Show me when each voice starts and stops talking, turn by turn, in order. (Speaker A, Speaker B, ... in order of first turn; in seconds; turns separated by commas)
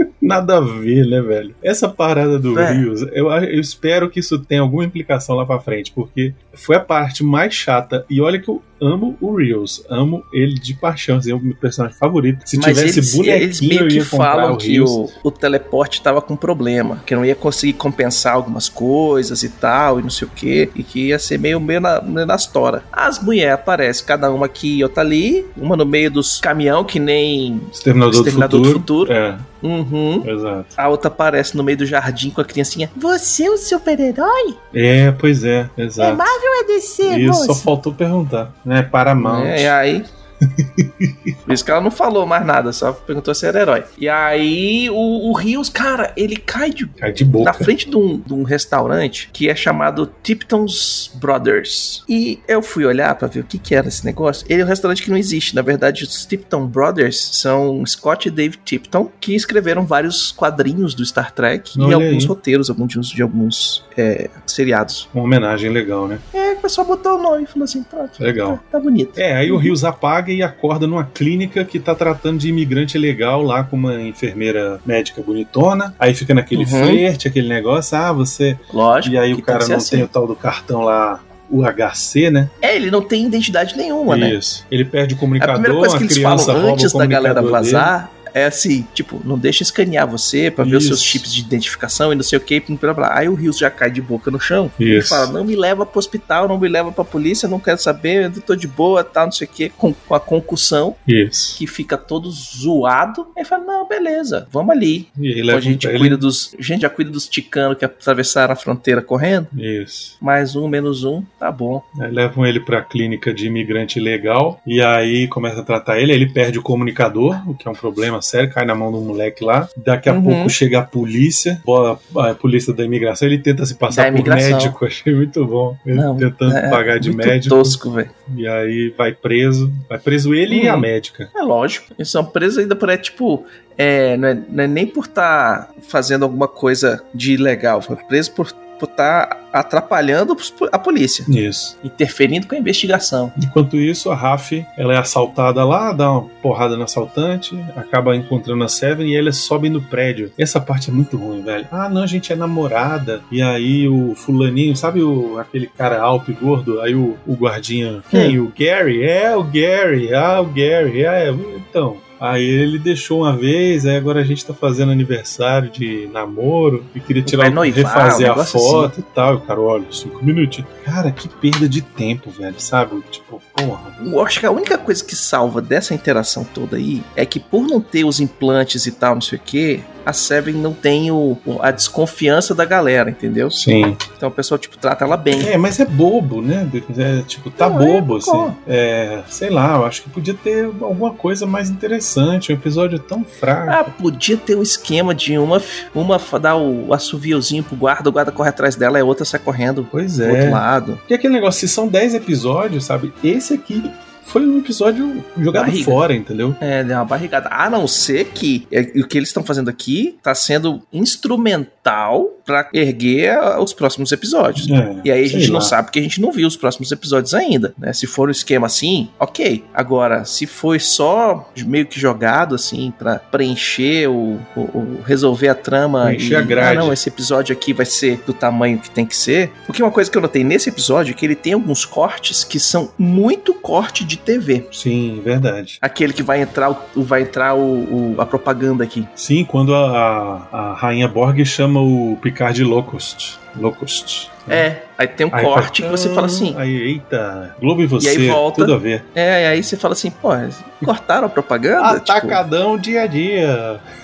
Speaker A: 0.2-15.1, Speaker B: 2.5-2.9, Speaker B: 12.5-34.5, Speaker A: 27.7-29.5, Speaker A: 30.2-30.8, Speaker A: 34.7-36.3, Speaker B: 36.0-37.7, Speaker A: 37.0-39.7, Speaker B: 39.2-40.1, Speaker A: 40.6-41.3, Speaker B: 41.5-65.1, Speaker A: 47.0-47.7, Speaker A: 61.7-62.3, Speaker A: 65.1-66.2, Speaker B: 66.3-69.7, Speaker A: 68.2-68.6, Speaker A: 69.2-82.5, Speaker B: 76.5-77.0, Speaker B: 78.7-80.1, Speaker B: 82.6-84.4, Speaker A: 84.1-87.9, Speaker B: 85.4-101.0, Speaker A: 90.6-91.3, Speaker A: 94.8-95.3, Speaker A: 101.1-101.6, Speaker B: 101.5-109.5, Speaker A: 105.2-106.2, Speaker A: 109.5-110.1, Speaker B: 110.2-111.8, Speaker A: 112.0-131.3, Speaker B: 120.1-120.5, Speaker B: 123.9-124.8, Speaker B: 125.9-128.1, Speaker B: 130.5-141.3, Speaker A: 141.3-141.8, Speaker B: 141.8-143.3, Speaker A: 143.4-174.0, Speaker B: 158.1-158.3, Speaker B: 167.2-168.9, Speaker B: 174.0-183.6, Speaker A: 183.5-184.0, Speaker B: 184.2-185.5, Speaker A: 185.3-193.9, Speaker B: 187.6-188.6, Speaker B: 193.7-201.0, Speaker A: 199.9-206.6, Speaker B: 205.5-206.0, Speaker B: 206.6-234.7, Speaker A: 214.6-215.7, Speaker A: 226.0-227.0, Speaker A: 234.7-235.8, Speaker B: 235.8-239.1, Speaker A: 239.2-244.7, Speaker B: 244.5-246.6, Speaker A: 245.3-249.0, Speaker B: 248.0-252.4, Speaker A: 251.8-253.8